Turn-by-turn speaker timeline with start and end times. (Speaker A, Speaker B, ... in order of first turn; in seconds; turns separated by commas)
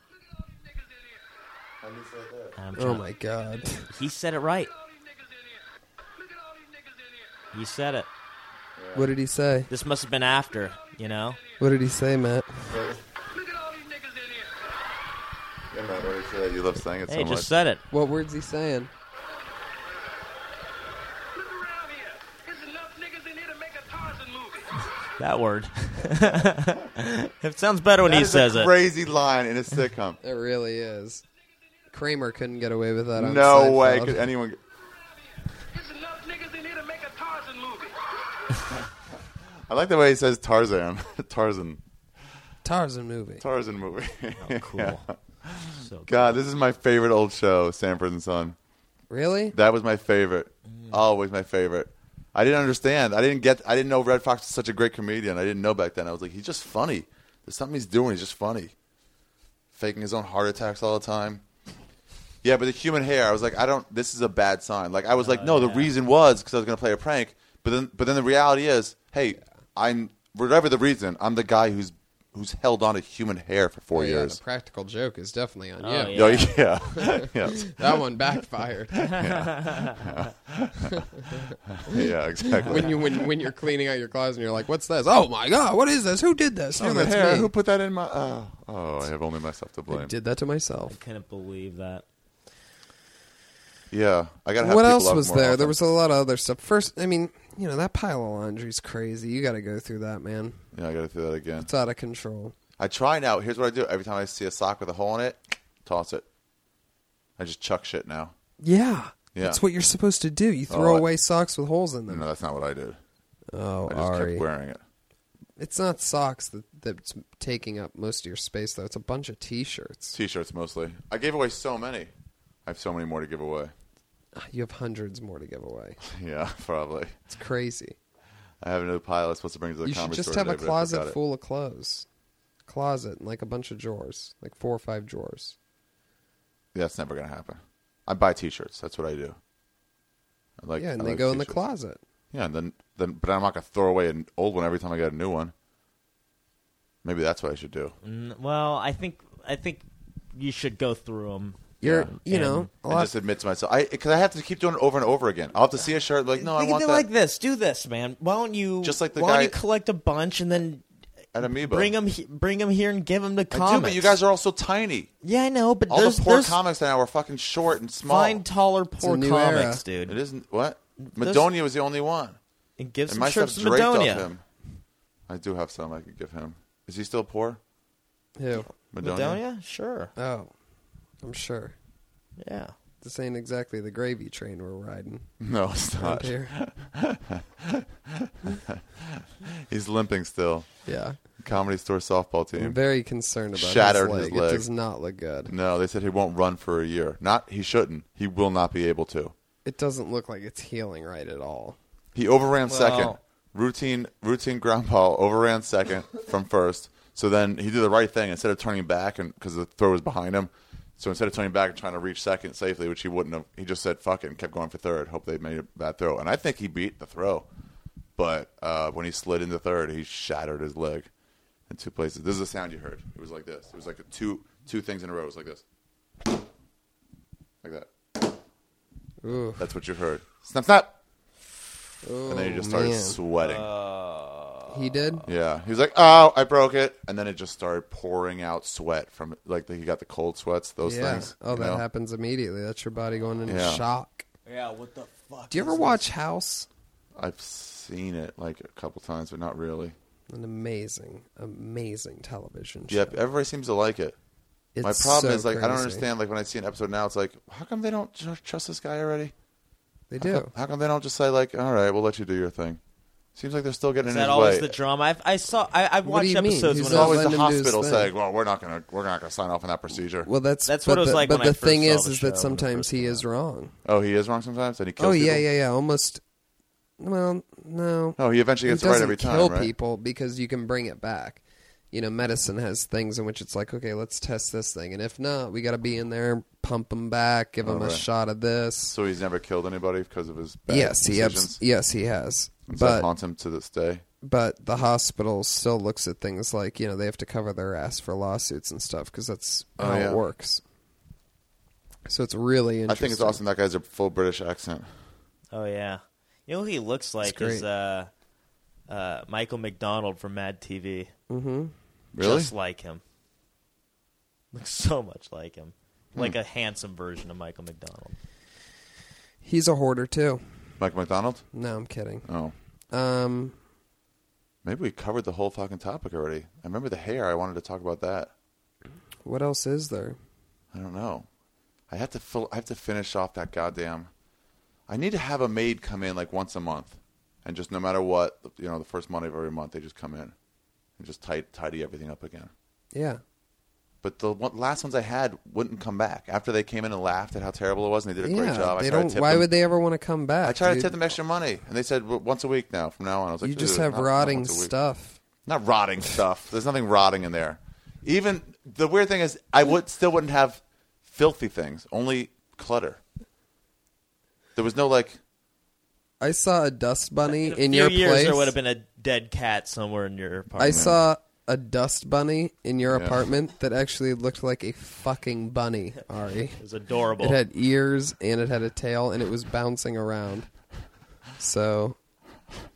Speaker A: 0.3-1.2, Speaker B: 1.8-2.6, Speaker C: 2.6-3.0, Speaker D: 2.8-3.9, Speaker C: 3.9-4.7, Speaker A: 4.7-5.7, Speaker A: 6.2-7.4, Speaker C: 7.5-8.1, Speaker B: 8.8-9.1, Speaker D: 8.9-9.7, Speaker C: 9.7-11.4, Speaker D: 11.6-12.7, Speaker B: 12.7-13.0, Speaker A: 13.3-14.6, Speaker B: 15.7-17.5, Speaker C: 17.1-17.8, Speaker D: 17.9-18.9, Speaker A: 21.3-24.9, Speaker C: 25.2-28.7, Speaker B: 28.0-30.2, Speaker D: 30.2-31.2, Speaker D: 31.9-34.2, Speaker B: 33.1-34.6, Speaker A: 35.7-38.7, Speaker B: 39.7-41.8, Speaker D: 42.6-43.4, Speaker B: 43.4-48.5, Speaker C: 44.4-45.0, Speaker C: 45.8-46.4, Speaker D: 49.1-49.5, Speaker B: 49.5-58.7, Speaker B: 59.7-61.4, Speaker B: 62.4-74.4, Speaker C: 65.2-65.9, Speaker D: 73.9-79.2, Speaker C: 75.8-76.6, Speaker B: 76.1-78.0, Speaker B: 78.9-83.3, Speaker C: 79.2-80.0, Speaker D: 81.0-87.5, Speaker B: 86.7-90.1, Speaker D: 89.9-91.0, Speaker C: 90.9-92.0, Speaker B: 93.9-95.8, Speaker D: 94.6-100.6, Speaker B: 100.7-101.7, Speaker D: 101.6-102.5, Speaker B: 102.8-106.2, Speaker B: 107.4-108.3, Speaker D: 108.6-112.2, Speaker B: 109.3-109.6, Speaker B: 110.7-111.0, Speaker B: 112.1-113.0, Speaker D: 113.5-114.4, Speaker B: 113.8-114.8, Speaker D: 115.6-120.2, Speaker B: 120.1-122.1, Speaker B: 122.7-123.7, Speaker D: 124.3-126.0, Speaker B: 126.0-127.2, Speaker D: 127.3-128.0, Speaker B: 128.6-131.2, Speaker D: 129.8-132.1, Speaker D: 132.7-135.6, Speaker B: 136.7-139.4, Speaker B: 140.6-141.6, Speaker D: 140.8-142.0, Speaker B: 142.3-145.5, Speaker B: 147.0-147.9, Speaker C: 148.0-152.7, Speaker D: 151.8-153.1, Speaker B: 151.8-152.1, Speaker B: 152.9-157.0, Speaker C: 156.4-160.8, Speaker B: 158.8-159.6, Speaker B: 161.3-161.9, Speaker C: 161.4-164.2, Speaker B: 163.5-165.1, Speaker C: 165.2-166.6, Speaker B: 165.9-168.4, Speaker C: 168.1-170.2, Speaker D: 169.0-169.8, Speaker B: 170.1-172.4, Speaker C: 171.0-171.5, Speaker C: 172.8-174.3, Speaker B: 173.1-174.4, Speaker B: 175.3-177.6, Speaker D: 178.4-178.7, Speaker B: 178.9-179.4, Speaker C: 179.0-180.1, Speaker D: 180.2-180.5, Speaker D: 181.2-181.7, Speaker C: 182.4-182.7, Speaker D: 183.0-185.3, Speaker B: 185.4-190.7, Speaker D: 186.0-186.5, Speaker D: 190.8-191.2, Speaker B: 191.4-192.8, Speaker D: 192.6-195.5, Speaker B: 193.5-194.7, Speaker B: 195.5-199.3, Speaker D: 199.6-201.8, Speaker B: 202.1-217.5, Speaker C: 202.7-203.2, Speaker B: 218.2-221.1, Speaker B: 221.7-225.6, Speaker B: 227.6-228.3, Speaker D: 229.2-229.7, Speaker B: 229.6-231.0, Speaker D: 232.0-233.2, Speaker B: 232.2-233.7, Speaker C: 233.4-235.2, Speaker D: 234.7-235.2, Speaker B: 235.2-241.8, Speaker D: 240.8-244.2, Speaker B: 243.4-243.8, Speaker C: 244.4-246.0, Speaker D: 245.5-246.7, Speaker B: 247.2-249.9, Speaker D: 250.3-253.2, Speaker B: 252.9-254.2, Speaker D: 254.8-256.1, Speaker B: 254.8-259.3, Speaker D: 260.1-260.5, Speaker B: 260.2-262.8, Speaker B: 263.3-264.8, Speaker C: 264.0-267.2, Speaker D: 266.0-268.1, Speaker B: 266.8-270.3, Speaker D: 270.2-273.7, Speaker C: 270.6-273.2, Speaker B: 273.8-275.4, Speaker D: 275.0-276.2, Speaker D: 277.0-281.4, Speaker B: 278.2-279.7, Speaker D: 281.9-288.9, Speaker B: 287.6-288.1, Speaker B: 288.9-291.6, Speaker D: 290.7-293.1, Speaker B: 292.7-294.0, Speaker D: 294.2-300.6, Speaker B: 299.8-300.2, Speaker D: 302.1-303.4, Speaker B: 302.9-304.9, Speaker C: 305.5-308.1, Speaker D: 307.2-307.6, Speaker C: 308.9-311.1, Speaker D: 311.3-311.7, Speaker B: 312.1-312.5, Speaker C: 312.2-313.0, Speaker C: 314.5-318.2, Speaker D: 319.4-320.4, Speaker B: 320.8-321.4, Speaker D: 321.5-322.3, Speaker B: 322.2-322.5, Speaker D: 322.9-323.6, Speaker B: 324.6-328.3, Speaker D: 329.2-330.2, Speaker B: 330.7-331.3, Speaker B: 331.9-334.1, Speaker B: 334.9-340.3, Speaker B: 341.0-342.5, Speaker D: 342.9-343.2, Speaker B: 344.0-349.5, Speaker D: 348.2-350.9, Speaker B: 350.4-354.7, Speaker D: 353.4-355.2, Speaker B: 355.4-363.0, Speaker B: 364.5-365.2, Speaker D: 366.2-368.5, Speaker C: 367.3-370.9, Speaker D: 370.6-376.6, Speaker B: 370.6-371.0, Speaker B: 372.9-373.2, Speaker C: 376.6-377.4, Speaker D: 377.2-380.5, Speaker D: 381.4-382.0